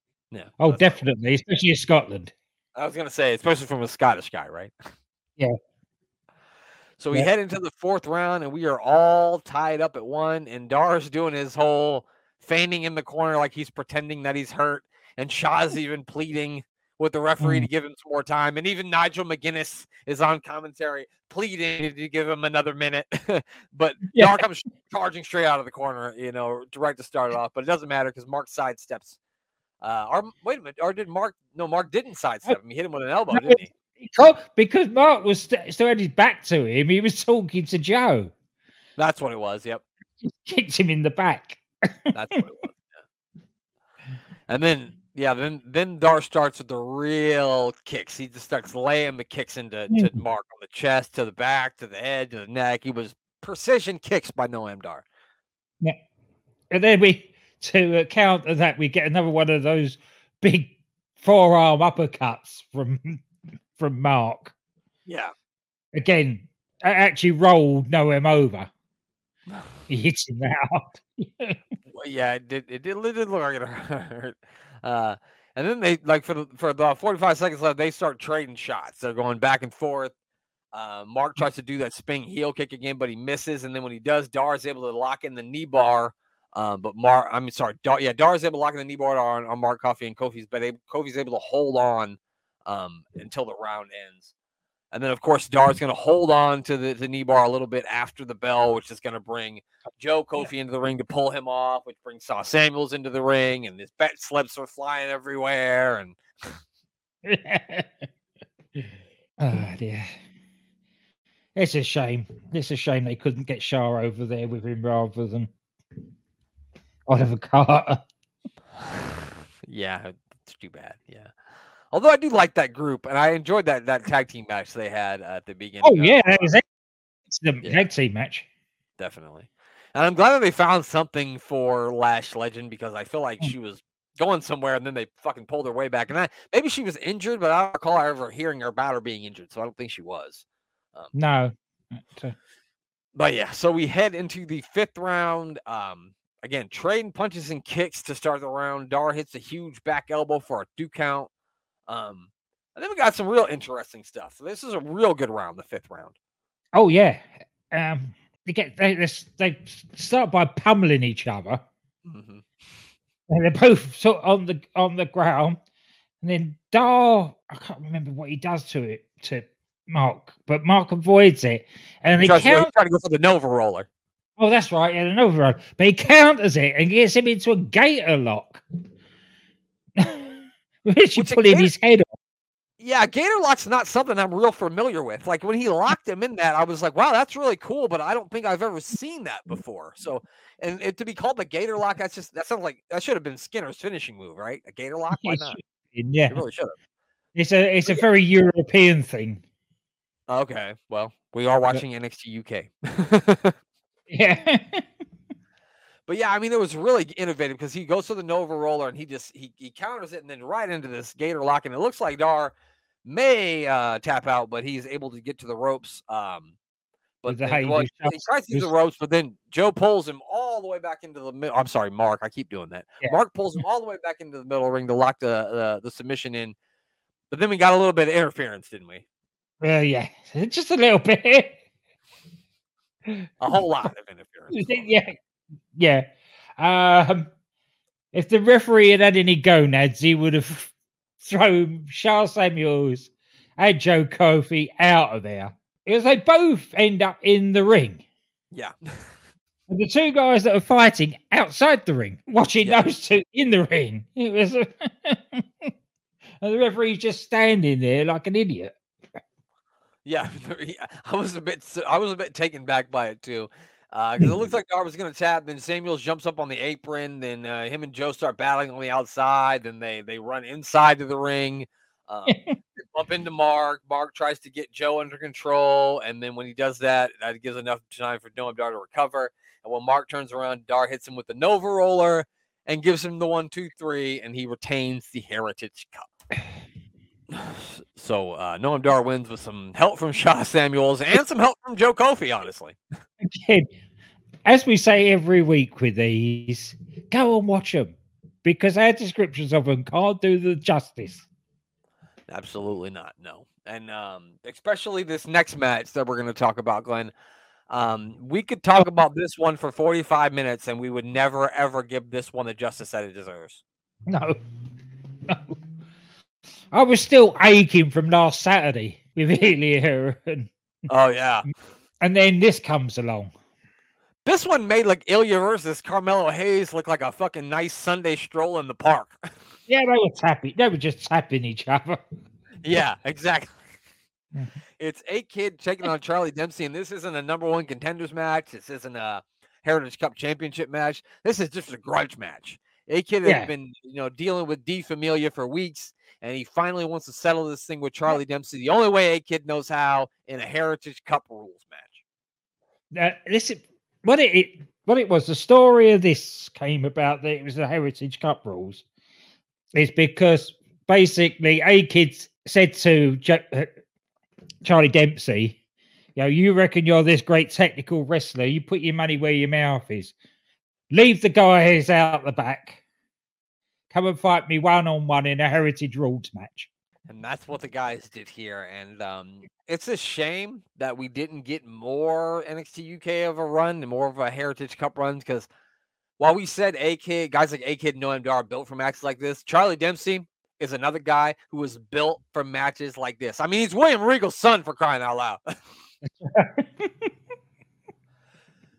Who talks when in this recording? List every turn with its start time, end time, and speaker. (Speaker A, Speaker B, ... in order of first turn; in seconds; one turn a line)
Speaker A: 0.3-1.0
Speaker B: 0.6-2.3
Speaker A: 2.7-4.7
Speaker A: 7.0-29.2
Speaker B: 17.4-17.7
Speaker B: 24.1-24.4
Speaker A: 29.8-33.7
Speaker B: 33.3-38.3
Speaker A: 39.0-39.8
Speaker B: 40.2-41.6
Speaker A: 42.1-43.0
Speaker A: 44.5-55.0
Speaker B: 56.7-63.2
Speaker B: 63.8-64.5
Speaker A: 65.0-65.3
Speaker B: 65.9-68.7
Speaker B: 69.9-71.6
Speaker A: 71.9-80.1
Speaker A: 80.7-94.3
Speaker A: 94.9-106.6
Speaker B: 107.2-107.9
Speaker B: 109.4-110.1
Speaker B: 111.5-115.5
Speaker B: 117.1-118.0
Speaker A: 118.8-121.3
Speaker A: 121.9-126.5
Speaker B: 125.8-126.6
Speaker B: 127.3-128.4
Speaker A: 129.0-141.1
Speaker B: 141.1-141.5
Speaker B: 142.1-142.3
Speaker A: 143.1-151.3
Speaker A: 151.9-156.1
Speaker B: 156.7-161.6
Speaker A: 162.0-162.5
Speaker B: 163.3-165.6
Speaker B: 166.2-172.7
Speaker A: 172.2-173.9
Speaker B: 174.4-178.6
Speaker B: 180.0-182.1
Speaker A: 181.2-181.7
Speaker A: 182.8-195.6
Speaker B: 195.2-196.4
Speaker A: 196.3-196.7
Speaker B: 197.3-199.4
Speaker A: 200.3-203.6
Speaker B: 204.1-204.8
Speaker A: 206.1-212.5
Speaker A: 213.0-216.5
Speaker A: 217.2-226.5
Speaker B: 217.3-218.7
Speaker A: 227.3-229.0
Speaker B: 229.6-231.6
Speaker A: 233.4-234.9
Speaker B: 234.5-235.2
Speaker B: 235.7-236.1
Speaker B: 236.6-237.3
Speaker B: 238.1-248.0
Speaker A: 248.5-249.1
Speaker B: 249.7-255.7
Speaker B: 256.4-258.7
Speaker A: 260.0-286.1
Speaker B: 272.3-272.6
Speaker A: 287.3-292.8
Speaker B: 293.2-293.7
Speaker B: 294.4-301.2
Speaker A: 302.3-307.1
Speaker A: 307.7-313.6
Speaker B: 314.1-314.4
Speaker B: 315.3-315.5
Speaker B: 316.7-320.5
Speaker A: 320.9-321.4
Speaker B: 322.0-323.3
Speaker A: 324.2-329.2
Speaker B: 329.7-332.0
Speaker A: 332.6-333.7
Speaker A: 334.8-352.0
Speaker B: 343.2-343.5
Speaker B: 352.9-358.8
Speaker B: 359.8-363.7
Speaker B: 364.6-365.6
Speaker B: 366.1-370.1
Speaker B: 370.9-372.8
Speaker B: 373.9-376.7
Speaker A: 377.1-385.5
Speaker A: 386.2-395.4
Speaker B: 396.0-397.1